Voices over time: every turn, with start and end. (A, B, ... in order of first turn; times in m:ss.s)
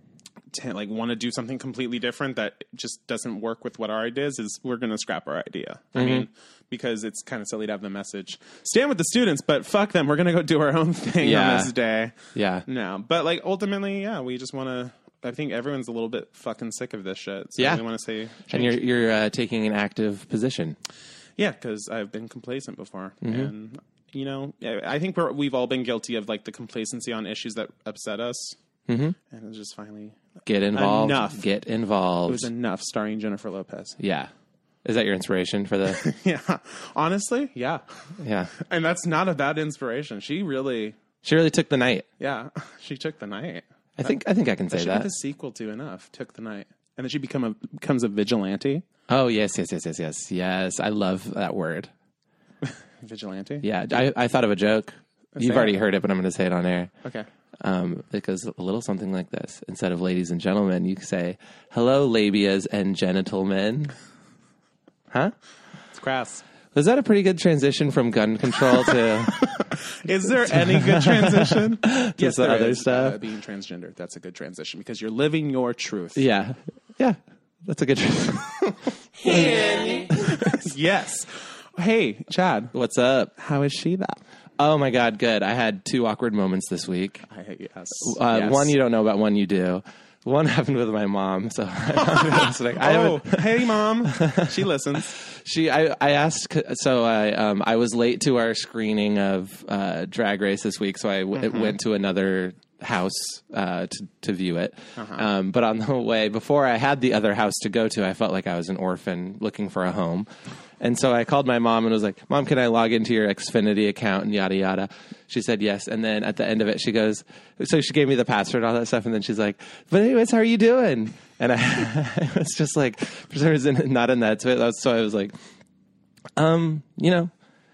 0:00.5-0:18.9 A
0:05.9-0:06.3 B
0:11.2-0:11.7 B
0:12.3-0:12.7 B
0:17.6-0:17.8 B
0:18.5-0:20.8 B
0:21.4-0:28.6 A
0:23.2-0:23.5 B
0:28.9-0:29.2 B
0:29.2-0:30.2 A
0:30.5-0:32.5 B
0:30.7-0:31.5 A
0:32.2-0:34.0 A
0:34.0-0:34.3 B
0:34.8-0:36.0 B
0:35.9-0:37.8 A
0:38.2-0:38.5 B
0:38.6-0:41.0 A
0:41.2-0:42.1 B
0:42.2-0:44.1 A
0:44.0-0:45.1 B
0:44.7-0:48.8 A
0:49.1-0:51.9 B
0:52.6-0:53.7 A
0:53.6-0:56.9 B
0:55.4-0:55.8 A
0:57.6-1:03.9 B
1:05.9-1:06.4 A
1:06.7-1:09.5 B
1:09.9-1:16.2 A
1:10.5-1:13.2 B
1:16.1-1:18.7 B
1:19.2-1:20.7 B
1:20.3-1:22.7 A
1:22.7-1:23.3 B
1:23.4-1:24.2 A
1:24.6-1:27.2 B
1:27.3-1:28.7 A
1:28.0-1:50.3 B
1:32.1-1:35.1 A
1:41.4-1:41.7 A
1:45.0-1:45.2 A
1:50.8-2:05.4 B
2:06.4-2:07.3 B